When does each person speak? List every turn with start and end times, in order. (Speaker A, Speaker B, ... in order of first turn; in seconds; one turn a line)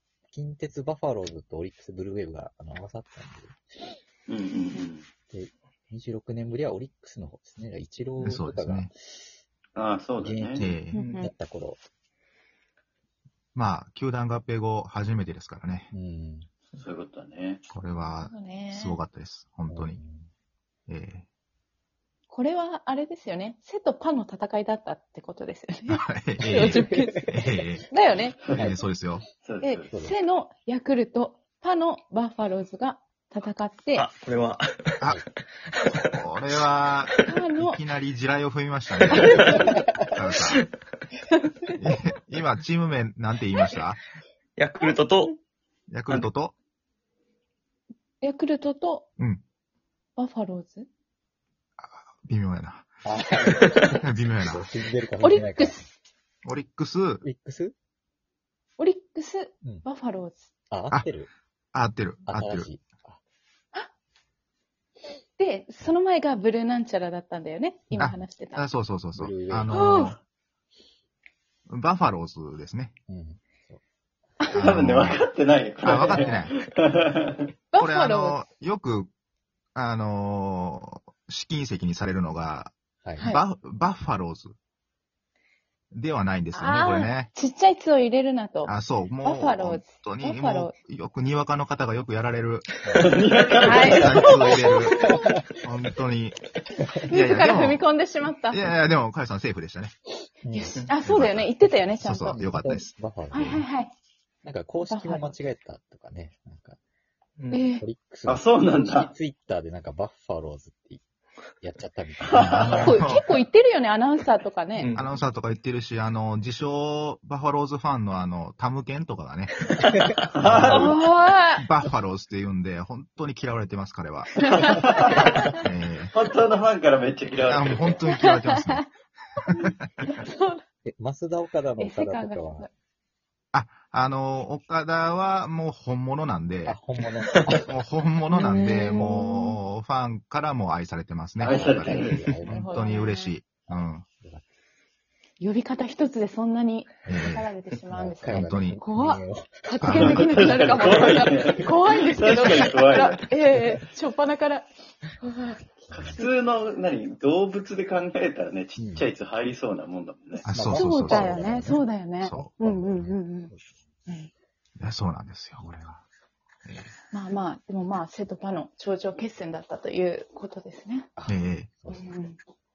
Speaker A: 0.3-3.6
Speaker B: 4.3-5.1
Speaker A: 5.3-9.3
Speaker C: 8.2-8.9
Speaker B: 9.7-10.6
Speaker A: 10.2-11.8
Speaker C: 10.6-11.0
Speaker D: 10.9-11.3
Speaker C: 13.5-15.9
Speaker A: 15.9-16.5
Speaker B: 16.8-17.6
Speaker C: 17.7-20.0
Speaker D: 18.2-19.0
Speaker A: 19.7-20.3
Speaker C: 20.9-21.2
Speaker D: 22.3-27.3
Speaker C: 25.9-27.9
Speaker D: 27.9-28.5
Speaker C: 28.5-29.3
Speaker A: 28.5-28.8
Speaker B: 29.4-29.9
Speaker D: 29.6-34.1
Speaker E: 33.9-35.0
Speaker C: 36.1-40.6
Speaker D: 37.3-37.8
Speaker E: 39.2-39.5
Speaker D: 39.2-39.9
Speaker A: 39.5-39.9
Speaker C: 41.8-44.0
Speaker E: 44.6-45.3
Speaker D: 44.8-45.3
Speaker C: 45.9-46.5
Speaker D: 48.2-49.1
Speaker D: 50.2-50.9
Speaker C: 51.8-52.9
Speaker A: 53.0-55.8
Speaker C: 54.0-54.7
Speaker D: 55.2-55.9
Speaker C: 56.4-57.2
Speaker A: 57.2-57.7
Speaker D: 58.8-60.5
Speaker A: 60.7-61.3
Speaker C: 61.7-62.7
Speaker A: 62.3-63.2
Speaker D: 65.4-68.6
Speaker C: 67.9-70.2
Speaker A: 69.1-70.1
Speaker D: 69.7-70.2
Speaker C: 71.7-72.9
Speaker A: 73.1-73.8
Speaker C: 74.5-75.2
Speaker B: 74.6-77.5
Speaker A: 74.8-75.2
Speaker C: 75.8-76.6
Speaker D: 77.7-78.4
Speaker C: 77.8-79.1
Speaker C: 79.7-84.5
Speaker A: 83.0-83.3
Speaker C: 85.9-87.3
Speaker D: 86.5-88.7
Speaker C: 88.7-92.8
Speaker D: 89.2-90.7
Speaker A: 92.8-93.2
Speaker B: 93.0-94.2
Speaker D: 93.6-95.4
Speaker C: 93.7-96.5
Speaker A: 93.9-94.2
Speaker A: 95.0-95.4
Speaker C: 97.0-99.9
Speaker D: 97.1-98.7
Speaker A: 100.4-100.8
Speaker D: 100.5-102.3
Speaker C: 101.0-102.9
Speaker A: 102.2-103.6
Speaker D: 103.3-103.9
Speaker A: 104.4-106.8
Speaker D: 104.8-105.3
Speaker D: 107.5-107.8
Speaker A: 107.8-111.0
Speaker B: 108.2-109.1
Speaker A: 111.6-113.0
Speaker B: 112.3-112.7
Speaker C: 112.3-113.3
Speaker D: 112.7-115.0
Speaker E: 114.8-115.0
Speaker C: 114.9-121.0
Speaker A: 119.9-120.8
Speaker B: 120.4-120.7
Speaker D: 120.7-121.7
Speaker C: 121.5-124.9
Speaker B: 124.7-125.3
Speaker C: 125.5-126.1
Speaker B: 126.1-128.0
Speaker C: 127.5-128.8
Speaker D: 128.1-128.8
Speaker D: 129.5-130.6
Speaker A: 130.8-132.7
Speaker D: 131.8-132.7
Speaker C: 133.5-136.8
Speaker A: 136.7-137.8
Speaker C: 137.5-144.1
Speaker D: 138.3-139.6
Speaker A: 141.4-142.9
Speaker B: 141.4-142.3
Speaker D: 142.4-143.3
Speaker A: 143.7-144.4
Speaker D: 145.4-156.2
Speaker A: 147.1-151.3
Speaker C: 147.1-147.4
Speaker C: 148.3-148.8
Speaker C: 149.8-150.3
Speaker B: 149.9-153.2
Speaker A: 155.7-156.2
Speaker B: 155.9-160.5
Speaker A: 158.8-159.1
Speaker C: 160.4-161.7
Speaker A: 160.5-161.8
Speaker D: 160.7-163.5
Speaker C: 162.2-162.5
Speaker A: 162.5-163.6
Speaker C: 164.8-166.0
Speaker A: 165.6-166.0
Speaker C: 166.7-166.9
Speaker D: 167.1-171.1
Speaker A: 171.2-172.1
Speaker C: 171.2-171.7
Speaker D: 171.9-172.4